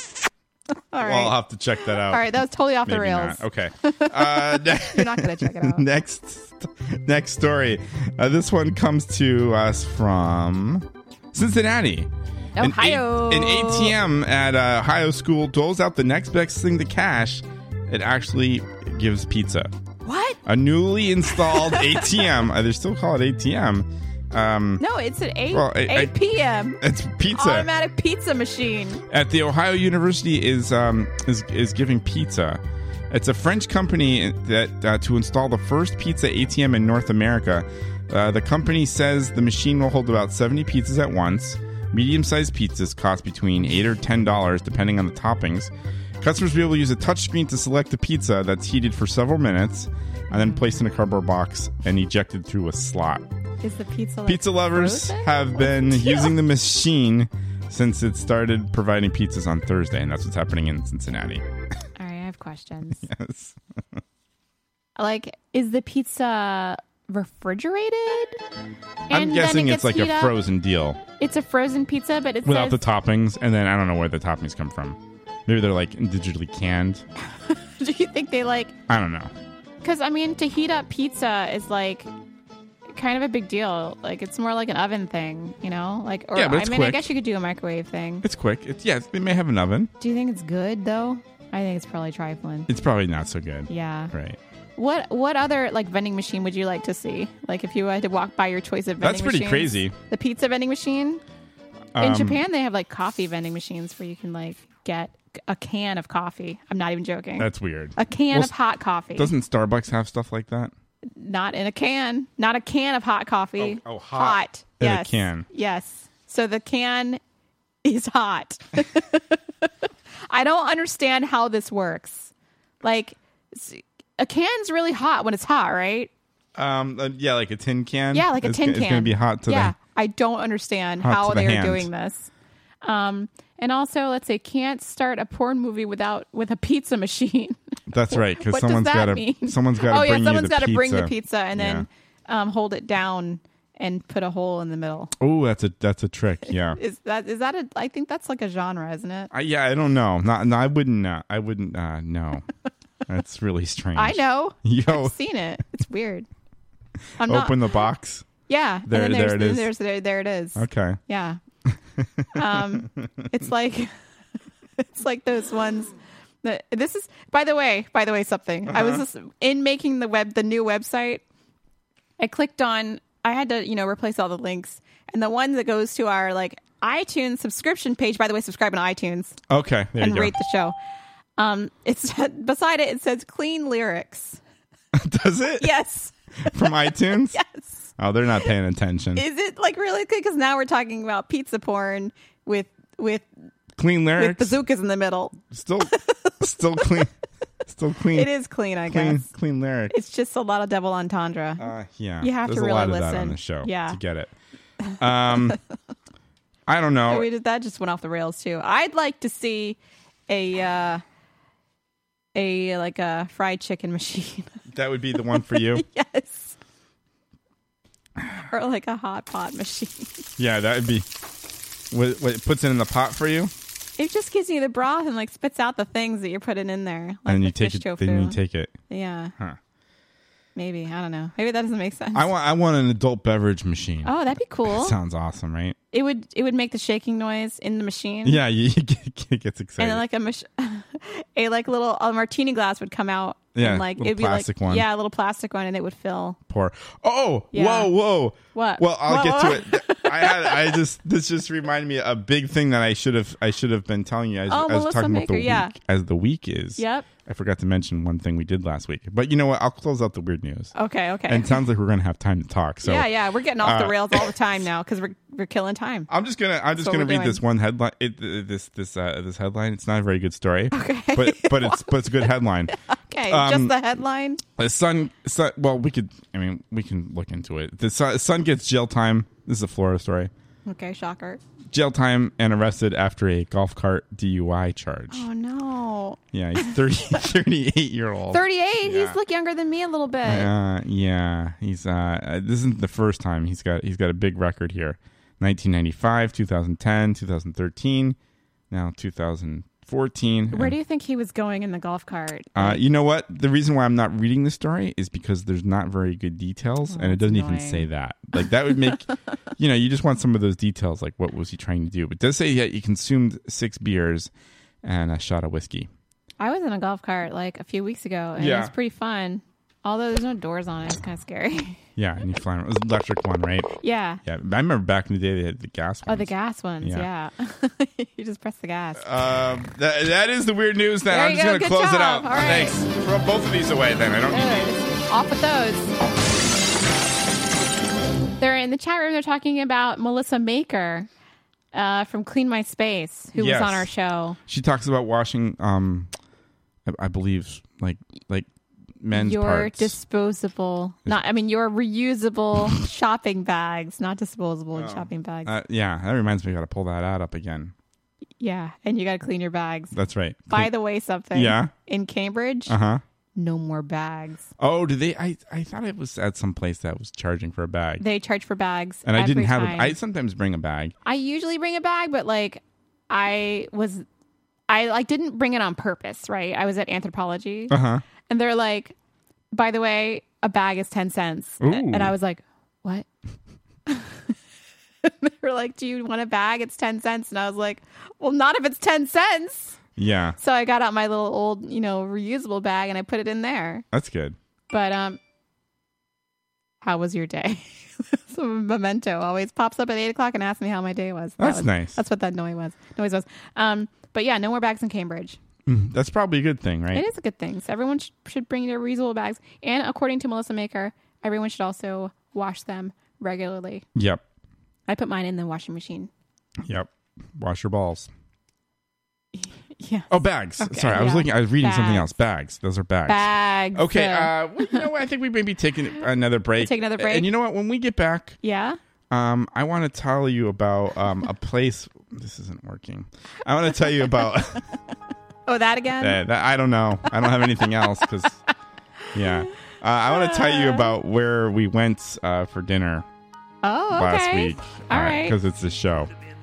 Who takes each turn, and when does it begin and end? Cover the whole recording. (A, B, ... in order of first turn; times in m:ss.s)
0:00.9-0:05.8 A
0:01.0-0:02.3 B
0:02.8-0:19.7 B
0:12.6-0:13.9 A
0:20.0-0:20.4 A
0:20.4-0:24.8 B
0:21.3-0:22.2 A
0:24.8-0:26.8 A
0:25.5-0:26.1 B
0:26.8-0:27.7 B
0:27.3-0:29.0 A
0:29.1-0:53.2 B
0:50.3-0:50.7 A
0:53.6-0:56.3 A
0:54.2-1:01.4 B
1:02.0-1:03.0 A
1:03.0-1:04.0 B
1:05.0-1:08.4 A
1:09.1-1:10.3 A
1:09.1-1:11.0 B
1:11.2-1:12.8 A
1:12.4-1:17.0 B
1:17.4-1:18.8 A
1:18.9-1:19.3 B
1:19.8-1:22.1 A
1:22.9-1:28.2 A
1:26.3-1:27.1 B
1:28.2-1:29.9 B
1:30.0-1:32.7 A
1:32.7-1:34.4 B
1:33.7-1:34.1 A
1:34.8-1:41.2 A
1:39.0-1:39.9 B
1:41.9-1:42.4 B
1:42.0-1:49.3 A
1:47.4-1:48.5 B
1:49.1-1:50.7 B
1:51.1-1:57.2 A
1:53.6-1:55.4 B
1:57.8-1:59.7 A
2:00.3-2:06.1 A
2:06.5-2:09.7 B
2:08.1-2:12.3 A
2:11.0-2:11.9 B
2:12.8-2:17.6 A
2:17.9-2:21.8 B
2:18.1-2:25.1 A
2:25.2-2:26.8 B
2:26.5-2:29.3 A
2:29.3-2:32.4 B
2:33.1-2:35.1 B
2:34.0-2:36.3 A
2:37.2-2:37.6 A
2:37.2-2:38.3 B
2:38.5-2:41.4 A
2:38.9-2:39.7 B
2:40.6-2:41.0 B
2:41.7-2:43.1 B
2:42.3-2:43.9 A
2:44.8-2:51.2 A
2:48.7-2:49.0 B
2:52.2-2:59.4 A
2:59.5-3:00.3 B
3:00.0-3:00.7 A
3:01.4-3:04.4 A
3:04.9-3:05.7 B
3:05.6-3:06.7 A
3:06.5-3:07.4 B
3:07.3-3:07.9 A
3:08.0-3:09.2 B
3:09.1-3:13.3 A
3:13.8-3:14.6 B
3:14.2-3:15.4 A
3:15.5-3:17.1 B
3:16.8-3:17.0 A
3:17.7-3:18.3 B
3:18.1-3:19.3 A
3:18.9-3:19.9 B
3:19.9-3:21.7 A
3:21.6-3:24.3 B
3:22.2-3:24.0 A
3:25.0-3:25.6 B
3:25.2-3:25.6 A
3:26.7-3:27.3 B
3:27.1-3:29.8 A
3:30.3-3:31.0 A
3:32.3-3:34.5 A
3:34.7-3:35.8 B
3:35.3-3:36.6 A
3:38.5-3:40.2 A
3:40.4-3:41.1 B
3:41.9-3:43.5 B
3:44.0-3:48.4 A
3:47.2-3:48.8 B
3:48.9-3:49.3 A
3:50.6-3:52.3 A
3:52.1-3:55.8 B
3:54.0-3:55.0 A
3:55.9-3:58.4 A
3:58.2-4:00.0 B
3:59.8-4:06.4 A
4:03.5-4:04.9 B
4:06.5-4:20.7 B
4:07.5-4:07.9 A
4:08.5-4:10.8 A
4:14.5-4:15.7 A
4:16.8-4:17.1 A
4:20.7-4:21.6 A
4:21.3-4:23.1 B
4:22.8-4:26.1 A
4:23.6-4:24.3 B
4:26.1-4:32.7 B
4:26.8-4:27.4 A
4:30.7-4:34.4 A
4:33.3-4:33.8 B
4:34.6-4:40.3 B
4:40.6-4:41.4 A
4:41.7-4:45.2 B
4:45.1-4:46.7 A
4:46.3-4:49.2 B
4:48.3-4:50.5 A
4:50.2-4:58.2 B
4:58.7-5:00.7 B
5:00.5-5:02.8 A
5:02.6-5:14.3 B
5:06.9-5:07.9 A
5:14.8-5:15.9 B
5:16.4-5:21.8 A
5:18.4-5:18.7 B
5:22.0-5:23.7 B
5:23.8-5:24.2 A
5:24.2-5:27.1 B
5:26.1-5:29.0 A
5:29.0-5:34.7 B
5:31.1-5:32.8 A
5:34.3-5:35.9 A
5:38.4-5:41.1 A
5:41.7-5:44.4 A
5:43.3-5:43.9 B
5:44.5-5:46.1 B
5:46.8-5:48.5 B
5:49.0-5:50.0 B
5:49.1-5:55.5 A
5:54.7-5:57.7 B
5:58.4-5:59.9 A
5:59.9-6:00.7 B
6:00.5-6:02.7 A
6:01.3-6:01.7 B
6:02.7-6:03.0 B
6:03.4-6:04.5 A
6:04.6-6:08.0 B
6:08.0-6:09.9 A
6:09.0-6:10.9 B
6:11.0-6:14.0 A
6:14.7-6:19.0 A
6:17.7-6:18.0 B
6:19.5-6:23.0 A
6:21.6-6:22.1 B
6:23.9-6:24.3 A
6:25.0-6:29.8 A
6:30.0-6:30.4 B
6:30.4-6:33.8 A
6:33.9-6:34.4 B
6:34.7-6:35.2 A
6:36.8-6:45.4 A
6:41.4-6:42.0 B
6:45.6-6:47.0 B
6:46.9-6:53.8 A
6:53.9-6:54.2 B
6:54.9-6:56.1 A
6:56.6-6:58.1 B
6:59.3-7:02.2 A
7:00.1-7:08.4 B
7:03.1-7:04.9 A
7:06.6-7:07.3 A
7:08.4-7:08.8 A
7:09.1-7:14.6 B
7:15.4-7:16.2 A
7:16.0-7:18.4 B
7:17.2-7:17.7 A
7:19.1-7:23.0 B
7:20.0-7:20.9 A
7:23.6-7:25.4 A
7:23.9-7:26.1 B